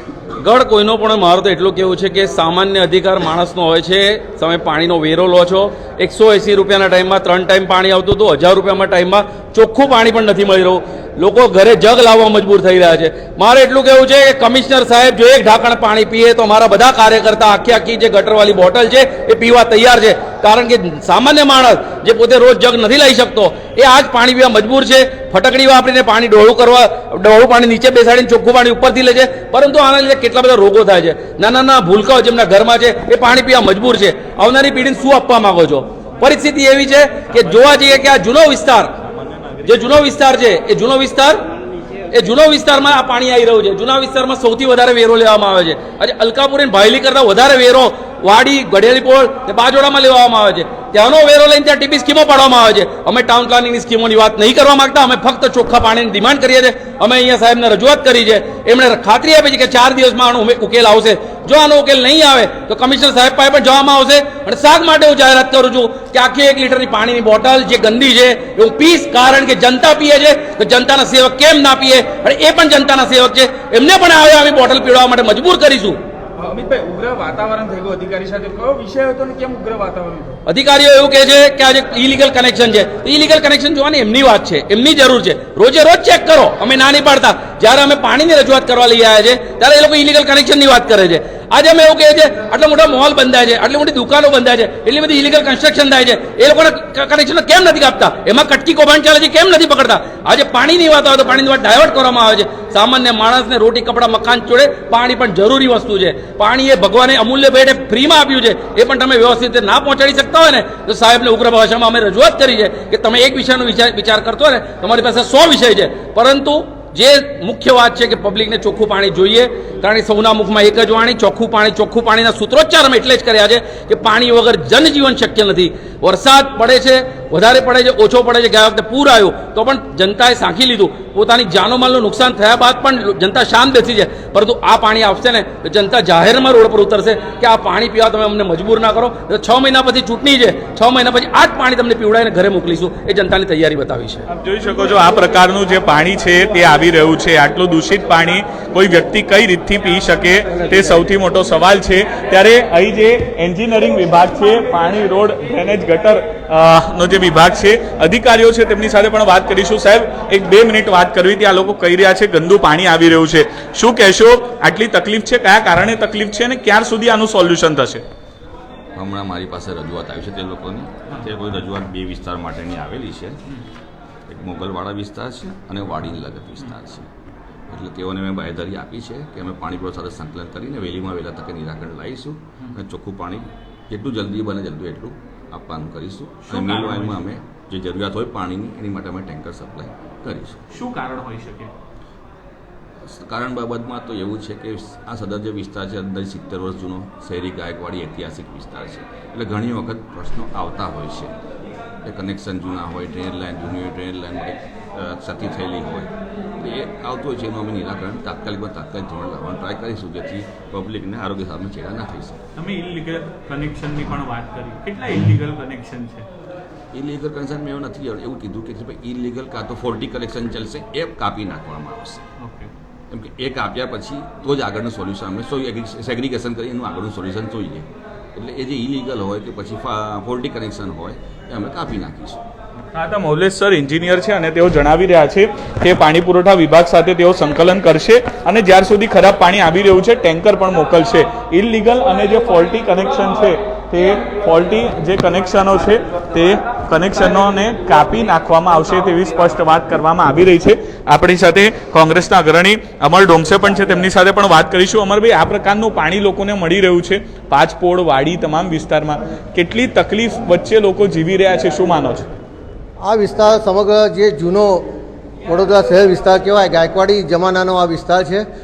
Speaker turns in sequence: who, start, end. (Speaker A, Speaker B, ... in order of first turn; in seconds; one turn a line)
Speaker A: 0.4-38.9
Speaker A: 39.6-41.4
Speaker A: 42.1-76.0
Speaker B: 76.4-80.4
Speaker A: 80.5-144.2
Speaker C: 144.4-168.0
Speaker D: 168.9-173.4
Speaker D: 174.3-177.1
Speaker D: 177.7-190.6
Speaker C: 186.5-187.2
Speaker C: 190.7-191.7
Speaker D: 193.1-201.3
Speaker D: 202.0-212.4
Speaker C: 212.6-216.3
Speaker D: 216.9-222.2
Speaker C: 222.4-222.7
Speaker D: 223.1-232.4
Speaker C: 232.9-262.3
Speaker E: 263.0-264.9
Speaker E: 265.5-268.4